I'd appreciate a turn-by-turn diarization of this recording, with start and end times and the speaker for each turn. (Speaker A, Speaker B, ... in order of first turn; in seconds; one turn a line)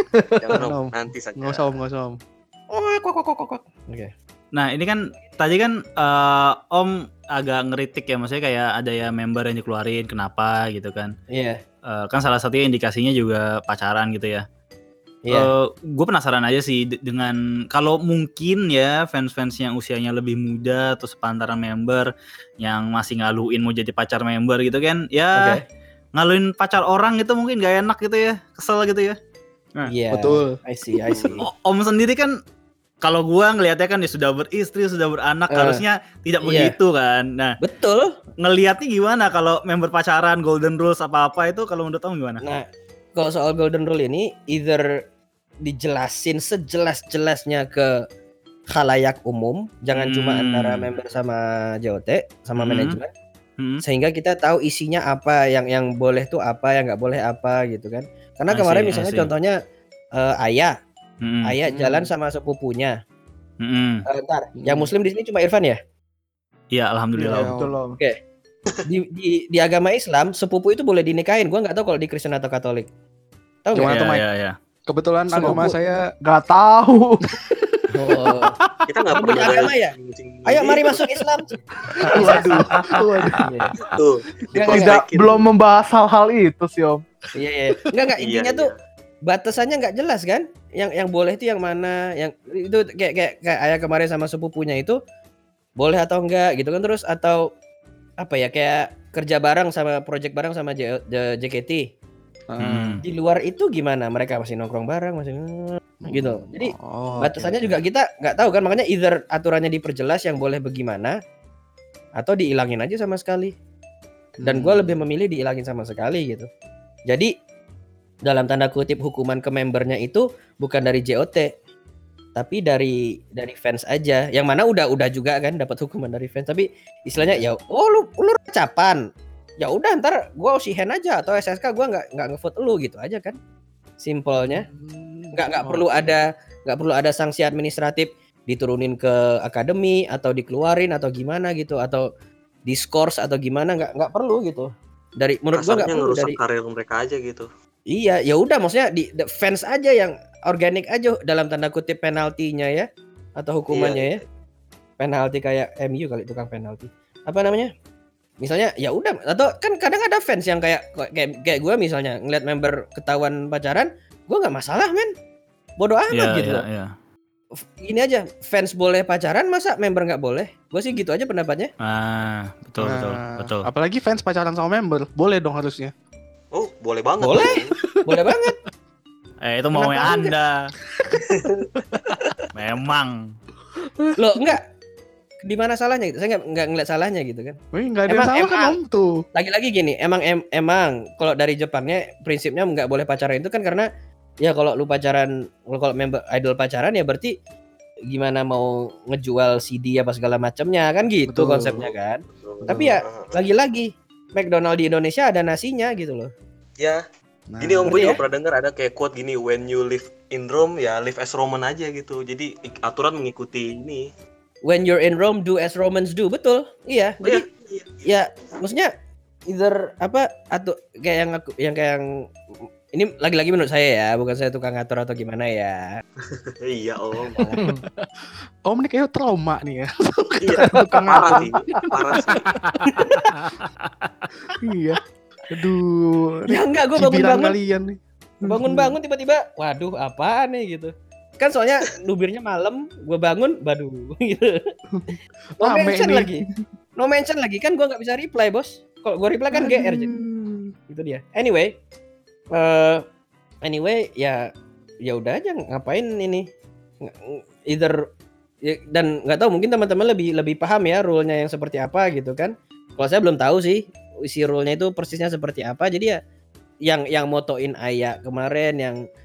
Speaker A: 0.2-2.2
Speaker B: 0.4-1.7
Speaker C: 2.7-4.1
Speaker D: 4.5-11.1
Speaker C: 11.3-11.6
Speaker D: 11.9-14.4
Speaker D: 15.3-22.1
Speaker D: 22.6-25.6
Speaker C: 25.4-25.6
Speaker D: 26.2-29.2
Speaker C: 29.9-31.4
Speaker A: 30.1-31.3
Speaker D: 31.4-32.3
Speaker D: 33.0-37.5
Speaker C: 35.5-35.8
Speaker C: 36.4-36.7
Speaker C: 37.6-38.1
Speaker D: 38.4-42.4
Speaker C: 43.1-44.8
Speaker C: 45.6-47.9
Speaker C: 48.7-53.1
Speaker D: 49.9-50.9
Speaker D: 52.6-53.0
Speaker C: 53.8-59.5
Speaker D: 58.5-59.3
Speaker C: 60.1-60.7
Speaker D: 61.2-61.5
Speaker C: 61.4-63.0
Speaker A: 61.6-62.1
Speaker D: 63.6-64.0
Speaker C: 64.1-65.8
Speaker A: 64.6-64.9
Speaker D: 66.7-67.5
Speaker E: 67.2-68.0
Speaker A: 67.3-67.8
Speaker C: 68.8-72.9
Speaker C: 73.6-73.9
Speaker A: 73.7-74.2
Speaker D: 73.9-74.5
Speaker A: 74.9-76.0
Speaker E: 75.3-77.4
Speaker C: 77.9-78.5
Speaker B: 78.9-81.0
Speaker C: 79.1-79.9
Speaker C: 80.5-81.6
Speaker A: 82.0-83.4
Speaker E: 82.0-83.4
Speaker C: 83.4-83.7
Speaker B: 83.8-85.5
Speaker C: 84.6-85.0
Speaker E: 84.7-87.0
Speaker C: 87.3-88.7
Speaker B: 88.2-88.7
Speaker C: 89.2-95.0
Speaker C: 95.8-97.4
Speaker C: 98.2-101.8
Speaker A: 102.5-103.0
Speaker D: 102.6-103.0
Speaker C: 103.0-111.1
Speaker A: 106.0-107.8
Speaker C: 112.2-113.5
Speaker A: 114.4-115.0
Speaker C: 114.4-116.5
Speaker C: 118.2-121.5
Speaker C: 122.3-129.0
Speaker C: 129.6-133.4
Speaker C: 134.0-134.7
Speaker A: 134.6-135.8
Speaker C: 135.3-142.0
Speaker C: 142.7-146.4
Speaker B: 145.5-147.5
Speaker C: 147.9-154.2
Speaker B: 153.7-154.1
Speaker C: 155.0-157.7
Speaker C: 158.4-165.1
Speaker C: 165.8-166.6
Speaker D: 166.1-166.9
Speaker C: 167.6-171.7
Speaker D: 171.8-173.7
Speaker A: 172.8-175.9
Speaker B: 176.5-177.7
Speaker C: 177.2-178.6
Speaker A: 177.8-178.3
Speaker D: 179.4-180.6
Speaker C: 179.7-180.3
Speaker B: 181.1-182.5
Speaker D: 182.5-183.2
Speaker C: 184.2-184.6
Speaker C: 185.4-188.7
Speaker A: 187.7-189.1
Speaker C: 189.3-193.9
Speaker C: 194.4-197.3
Speaker C: 198.1-206.3
Speaker A: 201.2-201.9
Speaker B: 202.4-203.4
Speaker A: 202.6-202.9
Speaker A: 207.5-208.1
Speaker B: 207.6-214.1
Speaker C: 207.9-208.2
Speaker C: 214.7-217.4
Speaker B: 217.2-217.9
Speaker C: 218.0-218.9
Speaker C: 219.5-222.0
Speaker C: 222.9-225.8
Speaker B: 226.2-227.6
Speaker E: 227.6-227.8
Speaker A: 228.7-231.9
Speaker B: 230.4-232.5
Speaker E: 230.6-231.9
Speaker A: 234.6-238.0
Speaker C: 236.5-237.5
Speaker C: 238.4-244.6
Speaker A: 238.6-238.9
Speaker A: 244.9-246.4
Speaker C: 245.6-246.4
Speaker C: 247.0-250.1
Speaker A: 249.5-250.7
Speaker C: 250.9-251.7
Speaker C: 252.5-253.0
Speaker C: 253.6-254.5
Speaker C: 255.0-256.4
Speaker C: 257.0-258.0
Speaker C: 258.6-266.2
Speaker C: 266.9-269.0